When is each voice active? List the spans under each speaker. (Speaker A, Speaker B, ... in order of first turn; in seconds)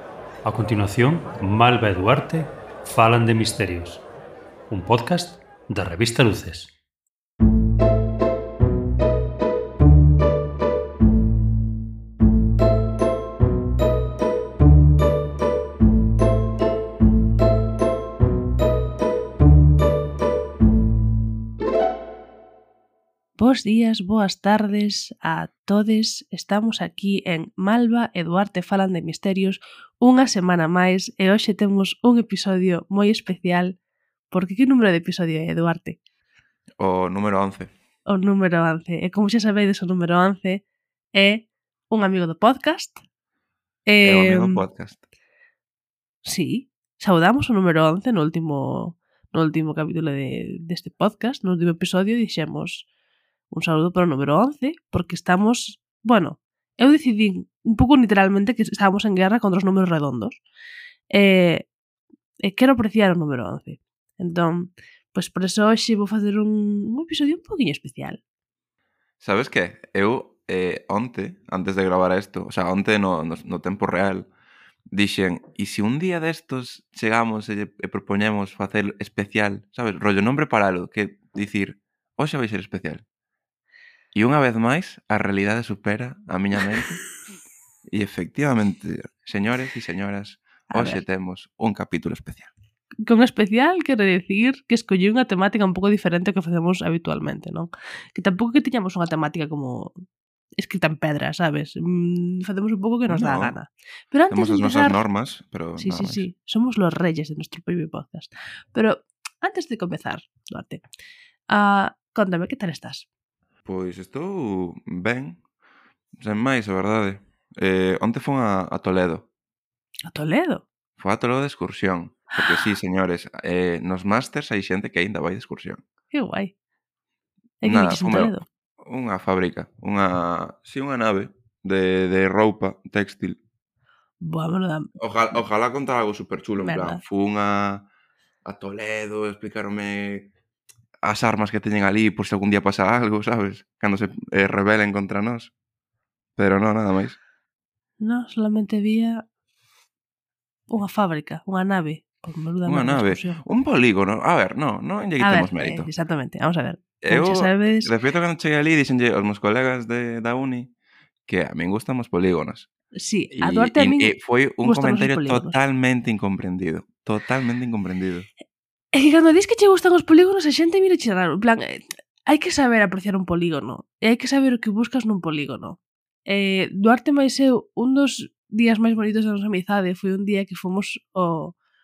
Speaker A: 0.5-4.0, 4.7-6.7
Speaker B: 23.4-33.8, 34.3-36.0, 38.1-43.0, 43.9-44.6, 46.2-52.9, 53.5-60.4, 61.1-61.6, 62.4-68.2, 90.7-91.0, 93.0-100.0, 100.6-105.0, 105.8-110.8, 111.5-113.0, 120.1-120.6, 126.1-126.5, 127.6-128.4, 134.2-134.9, 136.6-137.0, 148.0-149.2, 150.7-153.4, 155.2-157.9, 163.0-165.6, 168.9-181.6
Speaker C: 36.8-37.7, 44.0-45.0, 69.2-74.3, 74.9-83.0, 84.1-87.0, 87.9-92.5, 103.1-103.6, 104.3-106.3, 113.7-115.4, 116.2-119.3, 121.0-125.8, 127.6-133.4, 135.0-137.9, 138.4-140.3, 141.0-145.5, 146.4-147.2, 152.7-155.9, 157.0-160.7, 161.3-162.7, 163.4-168.3